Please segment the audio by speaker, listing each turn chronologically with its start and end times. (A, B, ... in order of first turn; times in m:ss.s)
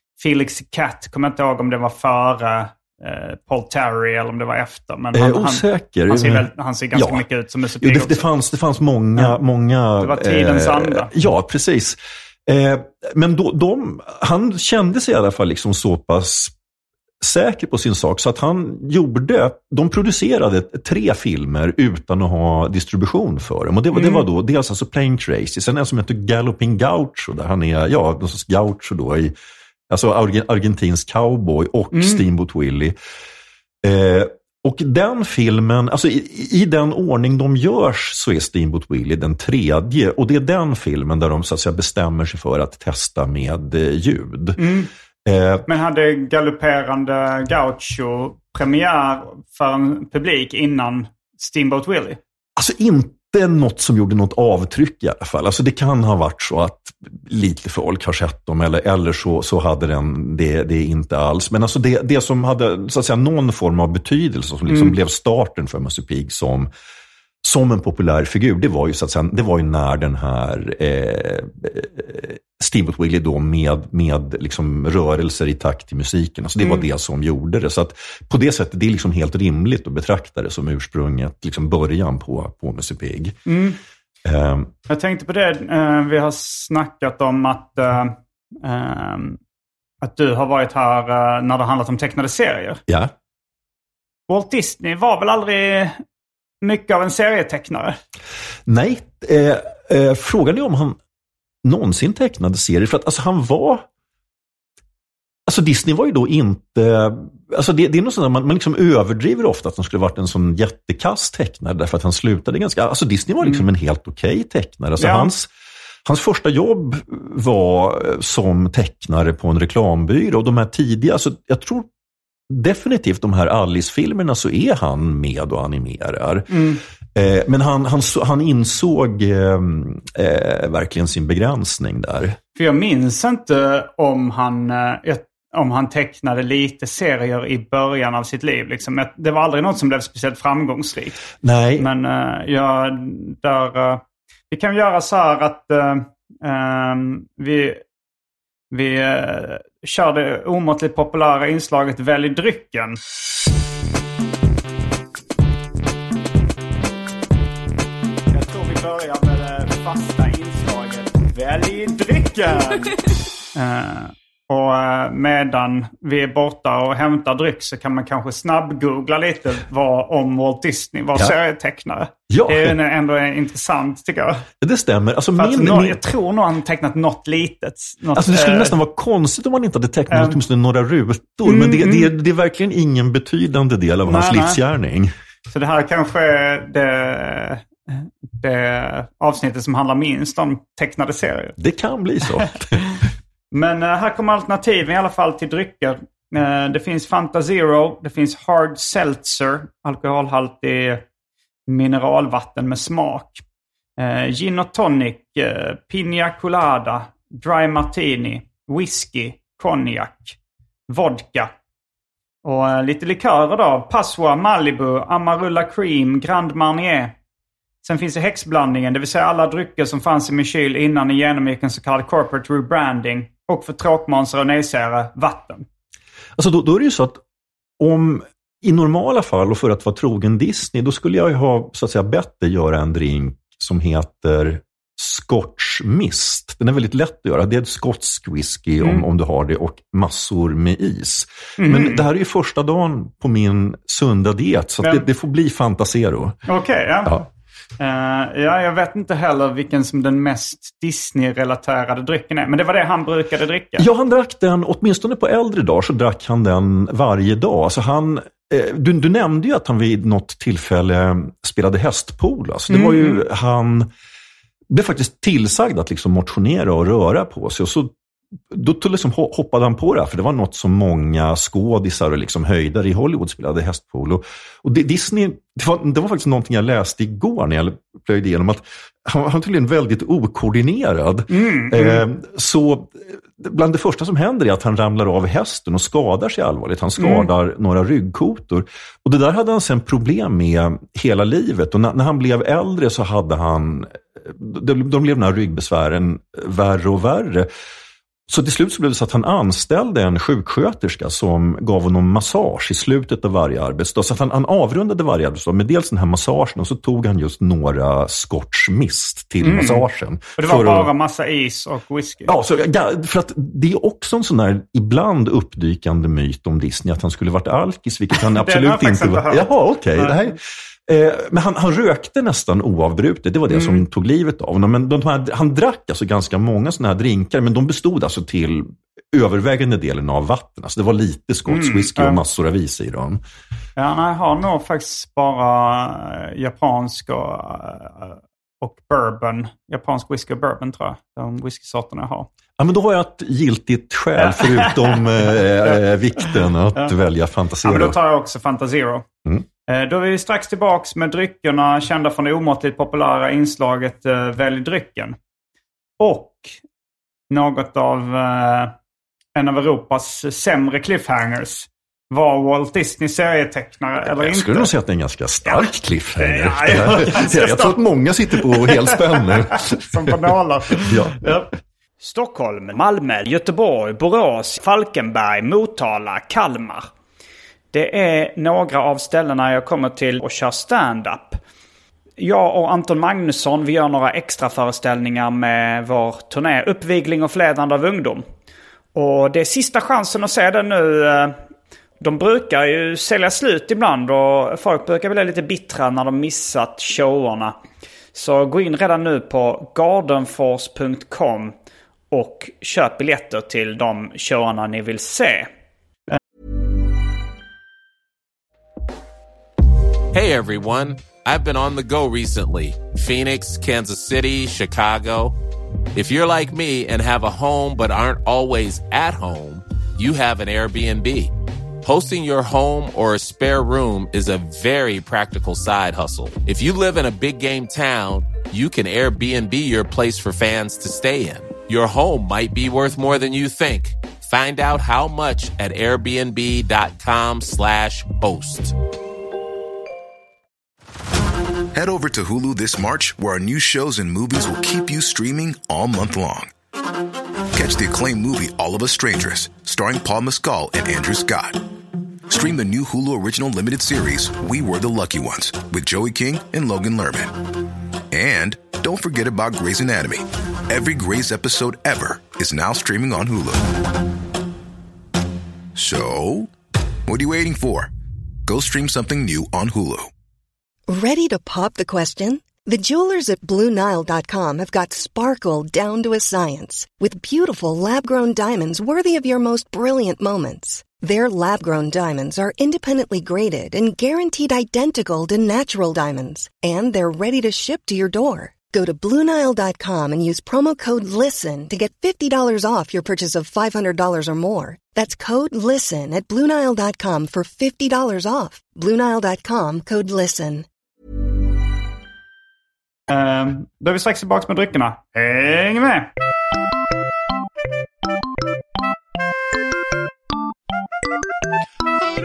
0:00.2-0:08.3 A
0:05.1-0:07.2 B
0:07.8-0:16.5 B
0:10.0-0:11.1 A
0:17.2-0:29.3 B
0:23.9-0:24.2 A
0:29.9-0:33.0 B
0:31.9-0:32.2 A
0:33.8-0:44.6 B
0:44.6-0:44.9 A
0:45.2-0:45.6 B
0:45.6-0:52.2 A
0:52.6-1:06.7 B
1:04.7-1:05.0 A
1:07.4-1:23.4 B
1:23.5-1:23.8 A
1:24.2-1:24.7 B
1:24.9-1:29.4 A
1:30.0-1:32.8 A
1:32.9-1:33.1 B
1:34.3-1:36.0 A
1:36.6-1:38.0 A
1:38.6-1:41.0 B
1:41.6-1:43.8 B
1:45.4-1:55.5 B
1:55.0-1:55.3 A
1:56.0-2:01.9 B
2:02.5-2:06.6 B
2:06.5-2:06.8 A
2:07.1-2:12.4 B
2:12.5-2:21.2 A
2:21.4-2:21.9 B
2:21.8-2:27.8 A
2:28.7-2:33.0 A
2:38.3-2:42.9 A
2:43.5-2:54.4 A
2:52.3-2:52.8 B
2:54.6-2:56.0 B
2:55.4-2:58.8 A
2:58.1-3:05.1 B
3:00.1-3:00.4 A
3:01.4-3:02.1 A
3:04.0-3:04.6 A
3:05.5-3:11.6 A
3:11.6-3:12.8 B
3:13.5-3:21.0 A
3:21.7-3:23.4 A
3:24.0-3:30.4 A
3:30.9-3:31.5 A
3:32.4-3:37.1 A
3:37.8-3:45.6 A
3:46.4-3:47.2 B
3:47.8-4:06.4 B
3:58.8-3:59.0 A
4:01.6-4:02.0 A
4:04.8-4:05.0 A
4:06.5-4:07.2 A
4:07.8-4:13.9 A
4:13.8-4:23.9 B
4:22.7-4:23.2 A
4:24.7-4:27.9 B
4:28.5-4:57.5 B
4:41.3-4:42.0 A
4:47.0-4:47.3 A
4:58.3-5:10.9 B
5:09.4-5:12.3 A
5:12.2-5:33.2 B
5:18.2-5:20.2 A
5:23.5-5:23.8 A
5:31.5-5:32.2 A
5:33.8-5:42.3 A
5:42.6-5:48.0 B
5:44.2-5:45.8 A
5:47.6-5:49.0 A
5:49.7-5:55.2 A
5:56.0-5:56.6 A
5:57.3-5:58.7 A
5:59.3-6:04.7 A
6:04.0-6:10.2 B
6:05.4-6:07.8 A
6:08.3-6:16.9 A
6:10.7-6:11.2 B
6:17.7-6:21.4 A
6:22.2-6:28.2 A
6:28.9-6:31.4 A
6:32.0-6:37.6 A
6:38.1-6:41.5 A
6:42.1-6:45.5 A
6:50.1-6:55.4 C
6:55.9-7:18.8 C
7:21.7-7:26.5 D
7:27.5-7:31.6 D
7:32.3-7:37.4 D
7:38.1-7:43.7 D
7:45.7-7:46.5 D
7:47.1-7:47.9 D
7:48.4-7:50.1 D
7:50.9-8:20.6 E
8:23.1-8:26.1 A